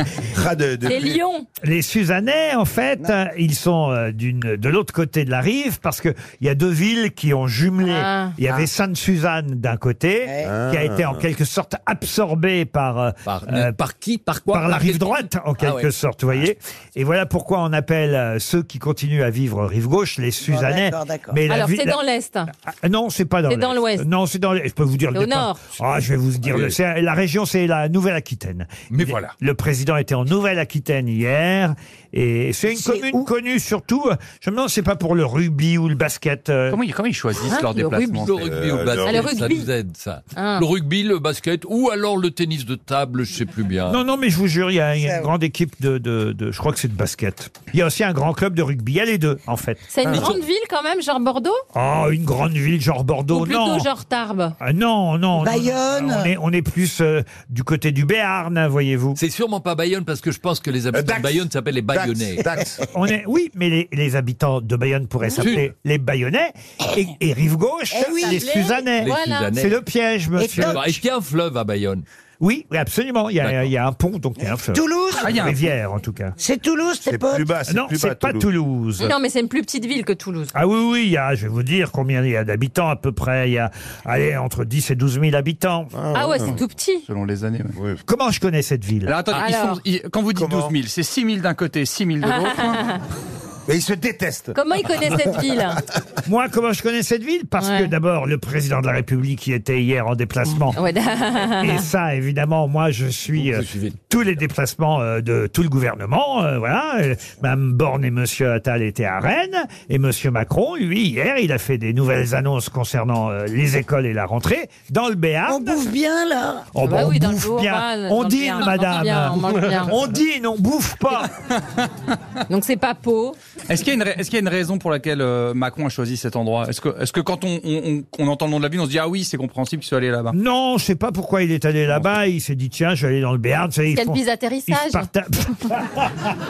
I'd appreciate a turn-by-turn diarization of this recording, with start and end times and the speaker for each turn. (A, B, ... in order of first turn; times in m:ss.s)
0:00.2-0:01.2 A
0:00.8-0:01.5 B
0:01.6-0:13.7 C
0:07.8-0:08.4 B
0:10.2-0:10.5 D
0:10.4-0:11.2 A
0:13.2-0:15.9 E
0:14.5-0:22.0 C
0:20.4-0:21.4 D
0:21.5-0:22.5 B
0:22.7-0:36.8 C
0:23.5-0:24.0 B
0:25.1-0:25.6 B
0:28.9-0:29.3 E
0:36.7-0:38.5 F
0:37.5-0:38.1 B
0:38.0-0:44.0 E
0:38.4-0:39.3 A
0:39.0-0:39.7 B
0:40.4-0:40.6 B
0:43.9-0:50.3 C
0:49.9-0:51.6 B
0:51.7-0:53.9 C
0:53.3-0:54.6 B
0:54.6-0:59.2 C
0:55.4-0:56.3 D
0:59.2-1:02.4 E
1:00.9-1:02.8 A
1:02.9-1:10.8 C
1:05.4-1:05.7 E
1:07.9-1:08.5 D
1:08.2-1:09.5 B
1:09.0-1:09.8 E
1:10.4-1:10.8 D
1:10.5-1:12.0 E
1:12.4-1:16.4 C
1:13.4-1:13.7 E
1:14.6-1:15.5 D
1:15.2-1:15.6 F
1:16.4-1:17.5 D
1:17.0-1:18.5 A
1:17.7-1:19.1 C
1:19.0-1:20.5 B
1:20.5-1:25.9 C
1:25.9-1:26.6 A
1:26.1-1:27.0 B
1:27.1-1:27.8 F
1:28.0-1:29.2 C
1:29.0-1:32.8 F
1:29.3-1:29.8 B
1:30.3-1:30.7 A
1:32.2-1:33.0 B
1:33.7-1:34.5 A
1:34.5-1:35.8 B
1:36.2-1:40.8 C
1:37.6-1:37.9 B
1:40.8-1:41.8 B
1:41.6-1:55.8 C
1:43.4-1:43.9 E
1:55.4-1:56.7 D
1:56.7-2:01.3 C
1:56.8-2:00.0 B
2:02.5-2:03.4 B
2:03.7-2:10.4 F
2:10.3-2:16.0 C
2:13.9-2:15.1 B